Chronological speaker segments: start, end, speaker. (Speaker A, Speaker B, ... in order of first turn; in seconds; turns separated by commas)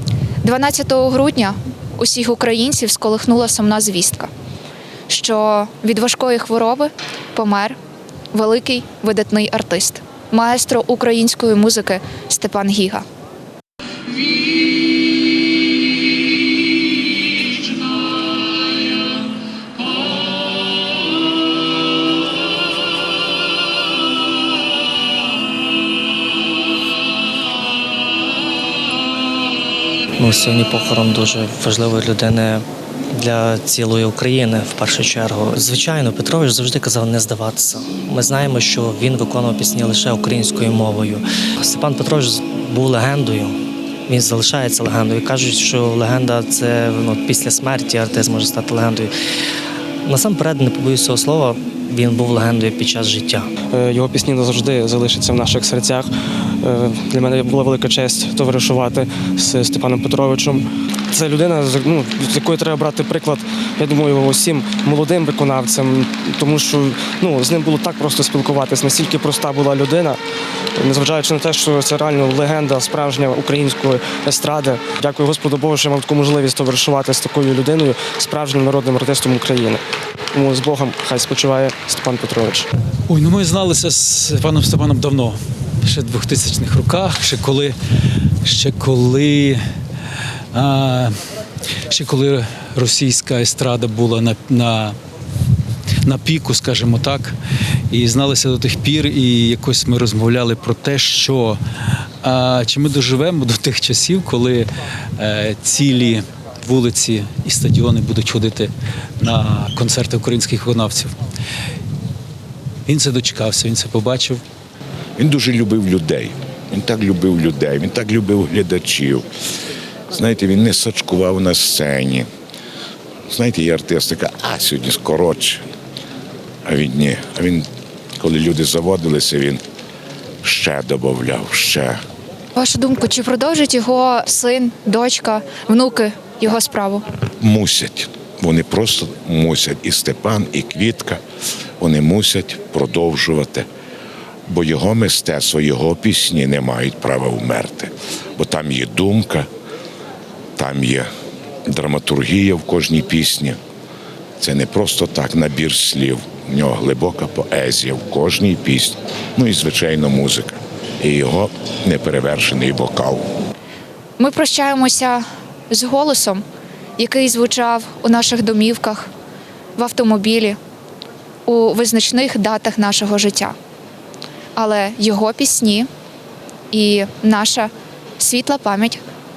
Speaker A: 0.4-4.3, Speaker A: 5.1-7.8, Speaker A: 8.3-13.1, Speaker B: 30.2-43.5, Speaker B: 44.1-49.1, Speaker B: 50.0-53.5, Speaker C: 53.7-70.2, Speaker C: 70.8-82.7, Speaker D: 83.1-85.3, Speaker D: 85.9-87.7, Speaker D: 88.6-89.5, Speaker D: 91.9-94.9, Speaker D: 96.0-97.2, Speaker D: 97.9-101.5, Speaker D: 102.2-104.6, Speaker D: 105.6-106.1, Speaker D: 106.6-108.7, Speaker D: 109.2-111.0, Speaker D: 112.9-114.3, Speaker E: 115.2-119.3, Speaker E: 120.1-122.3, Speaker E: 123.3-125.6, Speaker E: 126.7-127.7, Speaker E: 128.2-129.6, Speaker E: 130.4-132.0, Speaker A: 132.6-137.1, Speaker E: 137.4-141.2, Speaker E: 141.8-143.7, Speaker E: 144.5-149.5, Speaker E: 150.6-151.1, Speaker E: 151.7-153.6, Speaker E: 154.4-163.3, Speaker A: 164.2-166.4, Speaker A: 167.0-169.1, Speaker A: 169.8-170.6, Speaker A: 171.5-173.6, Speaker A: 174.6-175.9, Speaker A: 176.7-179.0